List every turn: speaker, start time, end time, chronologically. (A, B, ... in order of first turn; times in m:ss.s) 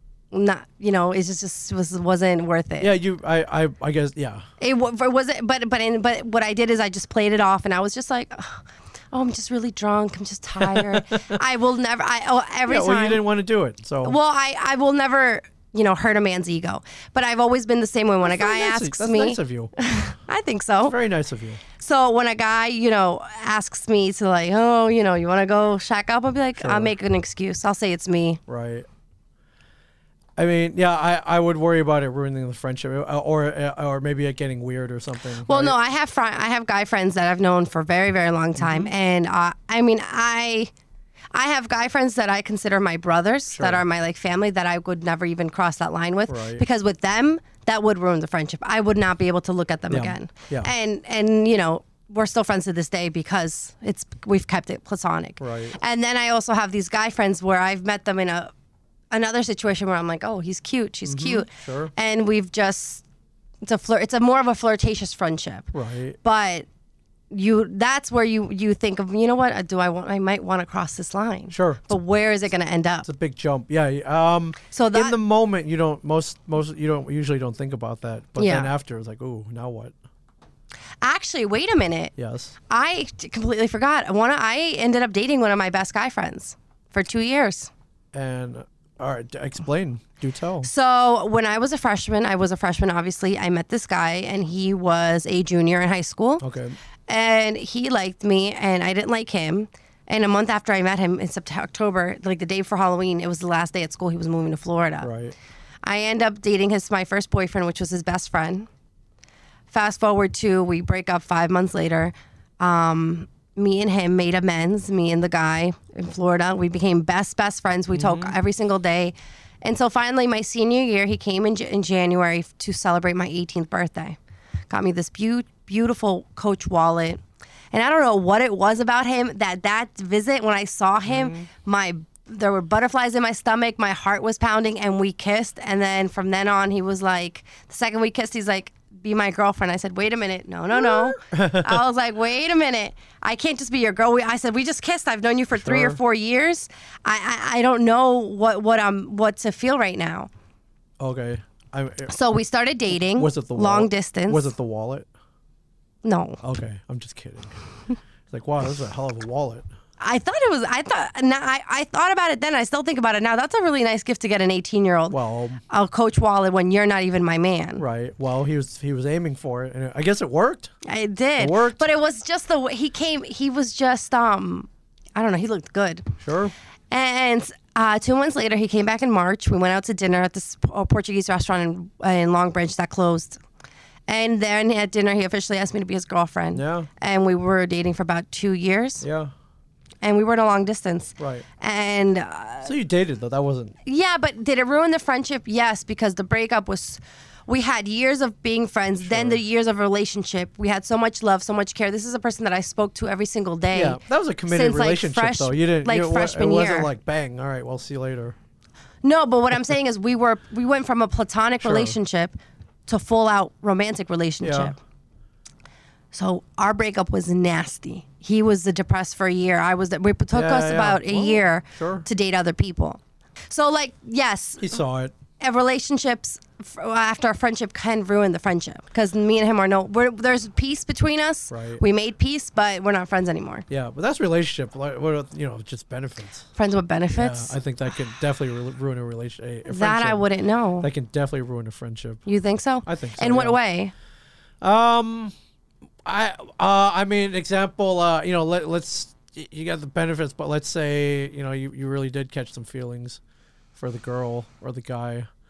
0:00.3-0:02.9 A
0:02.8-0:04.4 B
0:04.6-0:13.2 A
0:10.6-0:11.4 B
0:12.7-0:14.2 B
0:14.0-0:21.0 A
0:18.2-0:19.7 B
0:20.8-0:21.6 B
0:21.8-0:28.4 A
0:26.6-0:26.9 B
0:28.5-0:28.8 B
0:30.4-0:35.8 B
0:35.4-0:40.7 A
0:38.6-0:38.9 B
0:41.3-0:58.5 A
0:43.5-0:43.8 B
0:46.3-0:46.6 B
0:49.9-0:50.7 B
0:55.4-0:55.8 B
0:59.1-1:03.0 A
1:01.0-1:01.9 B
1:03.6-1:05.7 A
1:05.7-1:06.2 B
1:06.2-1:06.6 A
1:07.3-1:13.1 A
1:11.5-1:11.9 B
1:13.0-1:19.9 B
1:14.7-1:15.2 A
1:18.4-1:18.7 A
1:21.0-1:22.1 A
1:22.2-1:22.6 B
1:22.7-1:27.7 A
1:28.1-1:30.7 B
1:30.6-1:36.4 A
1:36.4-1:36.8 B
1:37.1-1:45.1 A
1:45.0-1:45.3 B
1:45.8-1:48.7 A
1:49.7-2:04.2 A
1:57.9-1:58.3 B
2:04.7-2:30.3 A
2:11.0-2:11.5 B
2:20.7-2:21.8 B
2:25.6-2:26.0 B
2:31.0-2:32.1 B
2:32.1-2:34.5 A
2:32.9-2:35.1 B
2:36.0-2:36.4 A
2:36.4-2:37.6 B
2:38.3-2:39.6 B
2:40.0-2:45.2 A
2:45.1-2:45.6 B
2:45.7-2:47.8 A
2:47.8-2:50.7 B
2:50.8-2:56.2 A
2:51.4-2:51.9 B
2:56.2-2:56.5 B
2:56.9-3:03.4 A
3:04.1-3:09.0 A
3:06.5-3:06.9 B
3:09.0-3:09.3 B
3:10.0-3:12.7 A
3:11.2-3:11.4 B
3:12.6-3:13.8 B
3:13.8-3:26.9 A
3:19.0-3:19.4 B
3:23.7-3:28.4 B
3:29.0-3:32.4 A
3:31.6-3:32.0 B
3:32.9-3:34.8 A
3:34.4-3:34.7 B
3:36.1-3:44.8 A
3:40.3-3:42.0 B
3:44.6-3:45.1 B
3:45.4-3:53.6 A
3:51.5-3:51.8 B
3:53.7-3:56.5 B
3:56.6-3:57.5 A
3:57.1-4:00.2 B
3:59.6-4:00.9 A
4:00.8-4:02.2 B
4:02.2-4:03.9 A
4:02.8-4:03.6 B
4:04.6-4:05.3 B
4:06.0-4:13.2 B
4:13.7-4:15.3 B